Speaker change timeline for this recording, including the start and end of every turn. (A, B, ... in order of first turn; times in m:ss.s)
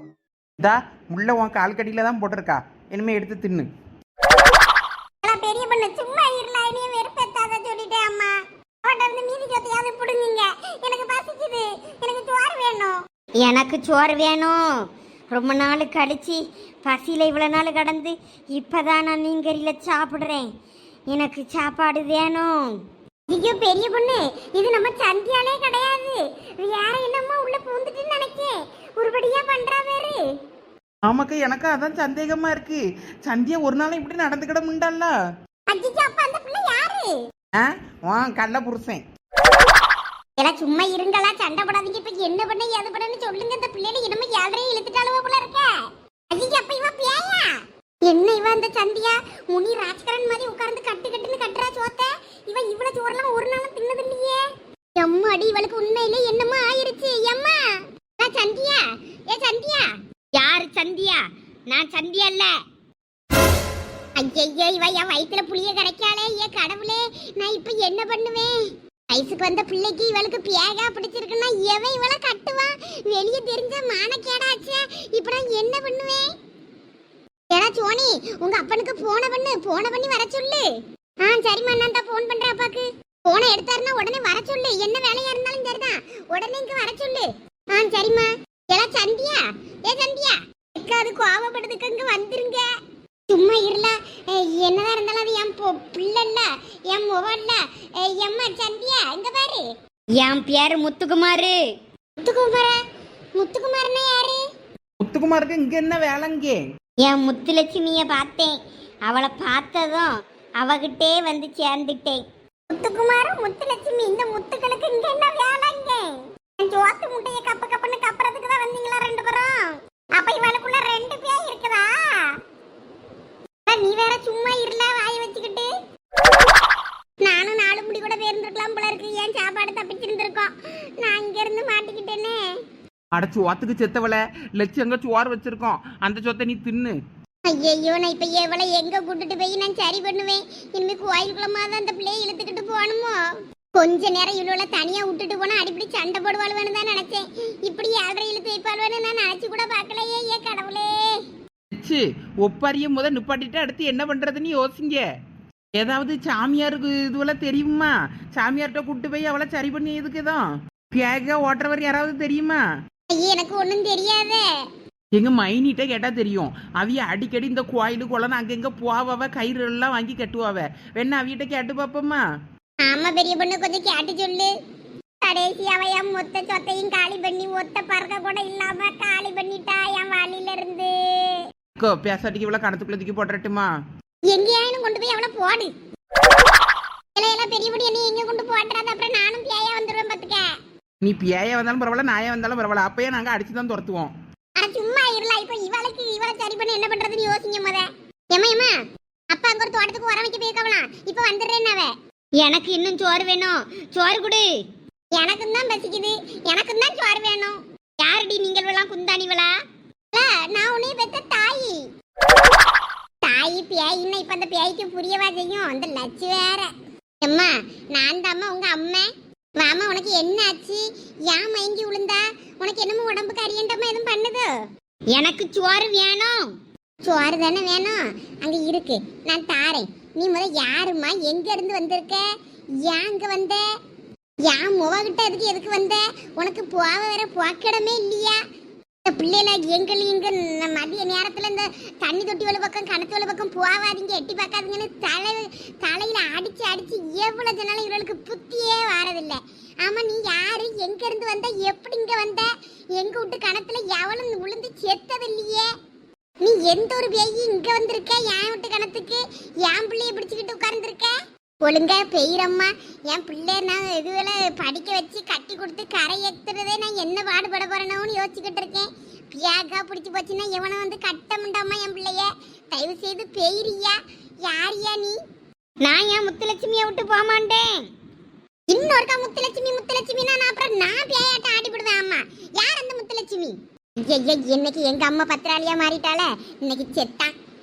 0:00.6-0:03.7 A
0:05.2-0:13.0 B
0:13.4-0:20.5 C
0:21.1-0:22.8 C
0:23.3-0:30.2 B
0:31.0-0:35.1 A
0:35.7-0:37.1 B
0:37.6-0:39.0 A
0:40.4-0:45.7 B
0:46.3-0:54.4 B
0:55.0-0:57.6 B
0:58.2-0:59.9 B
1:00.3-1:02.6 C
1:04.2-1:16.3 B
1:17.5-1:20.7 B
1:21.2-1:32.6 B
1:33.3-1:39.6 B
1:40.1-1:41.7 C
1:42.2-1:42.8 B
1:43.4-1:44.4 B
1:45.0-1:46.6 A
1:47.0-1:52.2 C
1:52.7-1:56.0 B
1:56.6-1:59.6 B
2:00.2-2:02.3 B
2:03.7-2:05.7 B
2:07.2-2:12.4 B
2:13.1-2:17.0 A
2:17.4-2:23.2 B
2:23.8-2:31.1 B
2:31.7-2:35.0 A
2:35.8-2:42.6 A
2:43.1-2:44.4 B
2:45.1-2:52.2 A
2:52.8-2:54.5 B
2:55.2-3:01.4 B
3:01.8-3:03.7 A
3:04.3-3:05.7 B
3:07.2-3:10.5 B
3:11.0-3:14.1 A
3:14.6-3:18.7 B
3:19.3-3:21.9 B
3:22.4-3:24.6 C
3:25.1-3:27.6 B
3:28.0-3:29.5 C
3:30.1-3:31.8 B
3:33.2-3:36.7 B
3:37.2-3:39.1 B
3:39.6-3:44.5 B
3:45.1-3:46.6 C
3:47.0-3:52.2 B
3:52.8-3:53.6 B
3:54.5-3:58.4 B
3:59.1-4:15.7 B
4:16.4-4:35.2 B
4:35.8-4:37.9 C
4:38.7-4:43.6 B
4:44.1-4:47.3 B